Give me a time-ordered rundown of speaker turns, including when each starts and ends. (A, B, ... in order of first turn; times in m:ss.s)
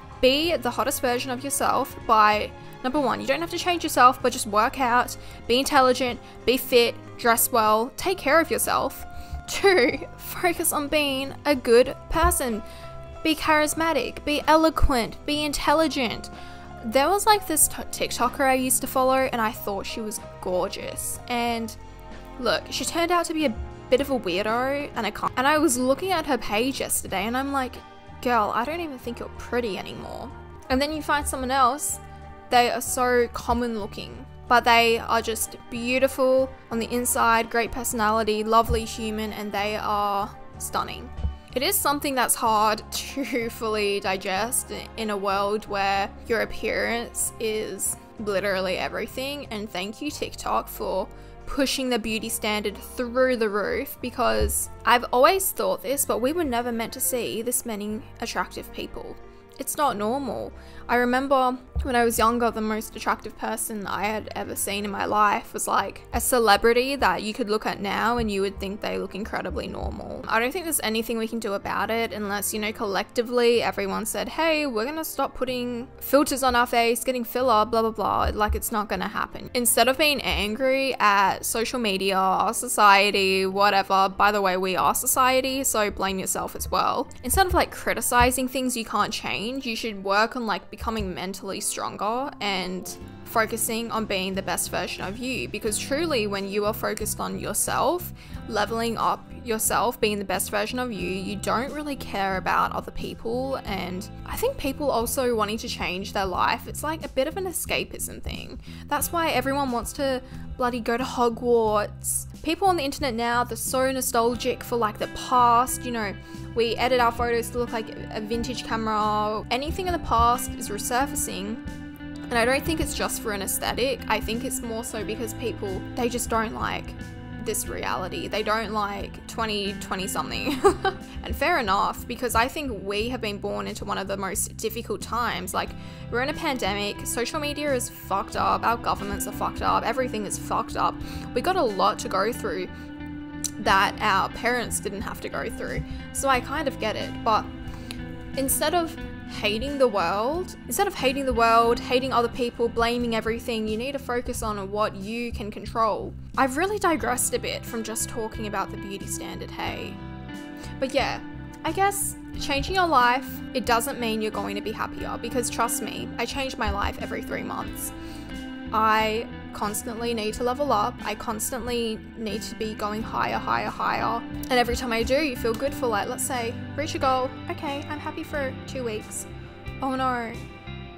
0:00.2-0:12.6 A
0:13.2-0:16.3 A
0:16.8-0:21.8 A
0:22.4-2:01.6 A
2:02.3-2:22.7 A
2:23.6-2:27.5 A
2:28.4-2:40.0 A
2:40.8-2:47.9 A
2:48.7-2:59.3 A
2:59.8-3:00.4 A